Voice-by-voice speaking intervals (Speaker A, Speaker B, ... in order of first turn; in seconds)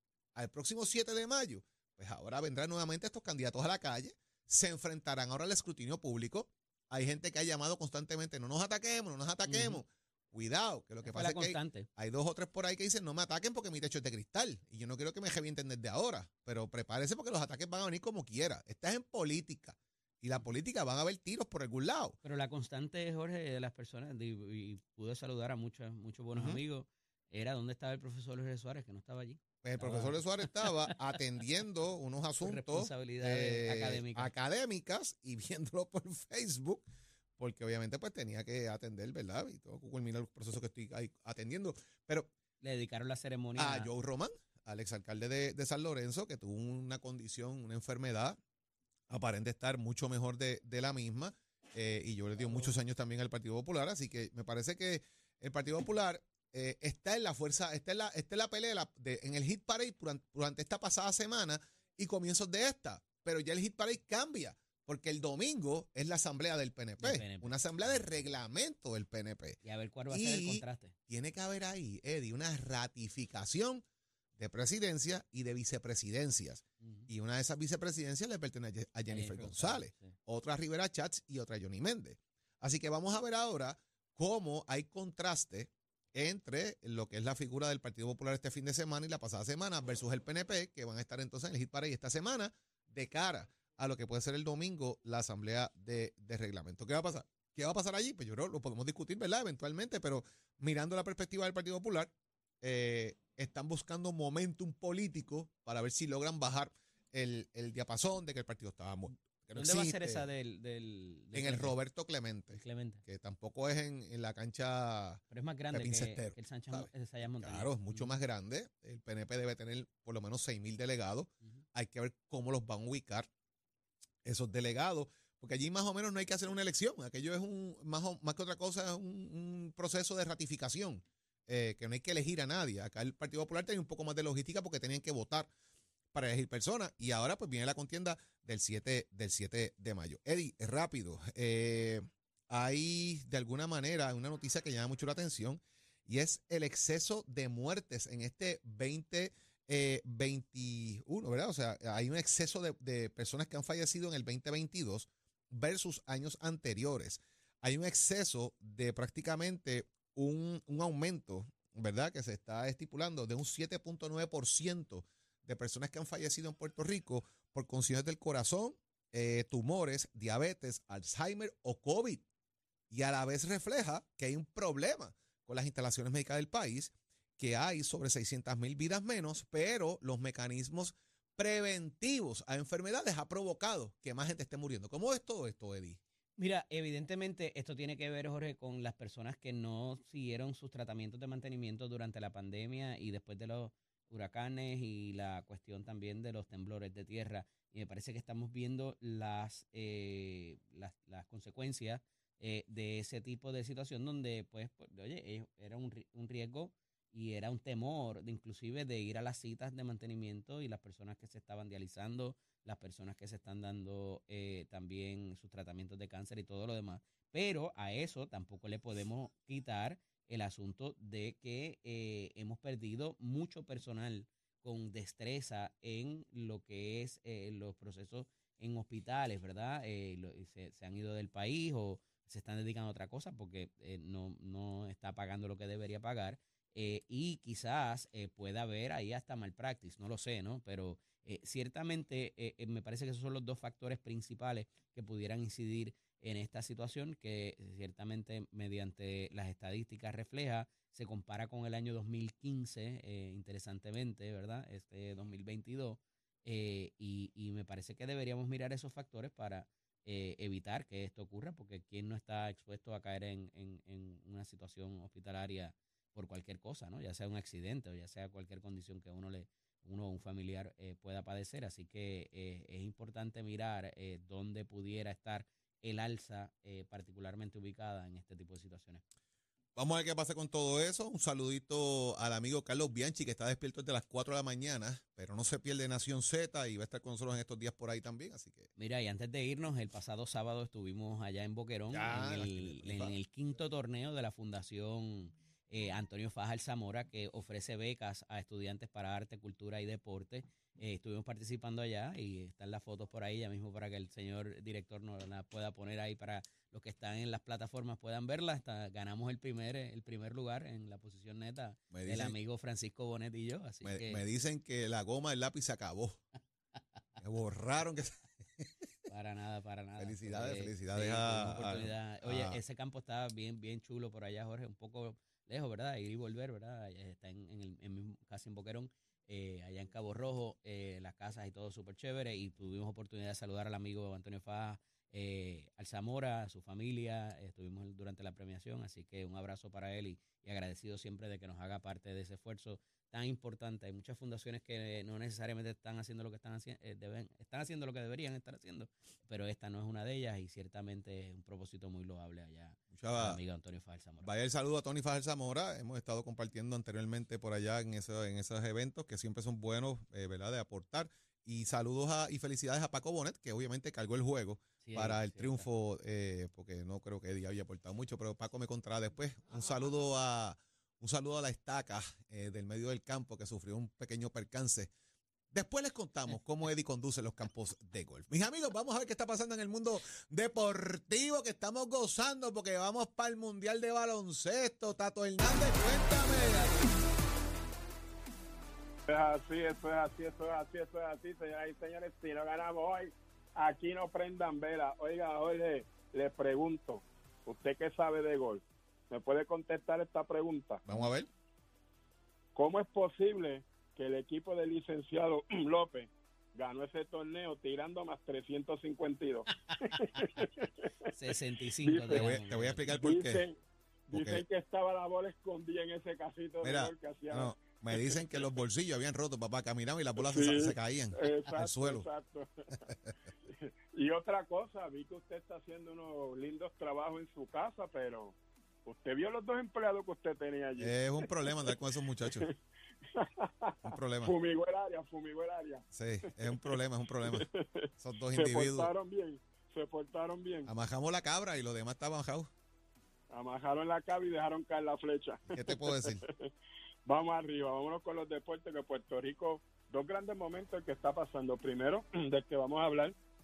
Speaker A: 0.3-22.2, 26.3-26.6, 29.6-36.8, 37.4-42.3, 43.6-48.4, 49.1-69.6, 70.1-73.8, 74.4-110.3, 111.3-123.3, 124.2-135.5, 136.1-172.2, 172.9-186.0, 279.8-288.7, 291.9-293.1, 311.9-312.3, 313.8-316.2, 317.2-318.7, 320.0-322.6, 352.9-353.4, 354.2-374.9, 375.5-386.9, 400.9-401.3, 412.1-413.4, 414.1-414.4, 416.6-422.1, 430.8-432.5, 433.8-434.3, 435.9-437.4, 438.0-438.9, 440.7-442.5, 445.5-446.2
Speaker B: 9.4-9.8, 11.0-11.9, 22.2-30.9, 32.4-34.3, 42.6-43.9, 67.0-68.2, 69.6-70.9, 76.8-77.1, 79.1-80.1, 109.5-111.7, 112.5-113.0, 115.3-118.2, 186.4-279.0, 288.8-314.2, 319.1-354.3, 364.8-365.7, 411.1-412.8
Speaker C: 389.1-400.8, 402.5-411.1, 411.8-413.6, 414.1-418.4, 420.2-422.8, 423.5-432.5, 433.1-440.7, 443.3-446.5, 447.1-453.1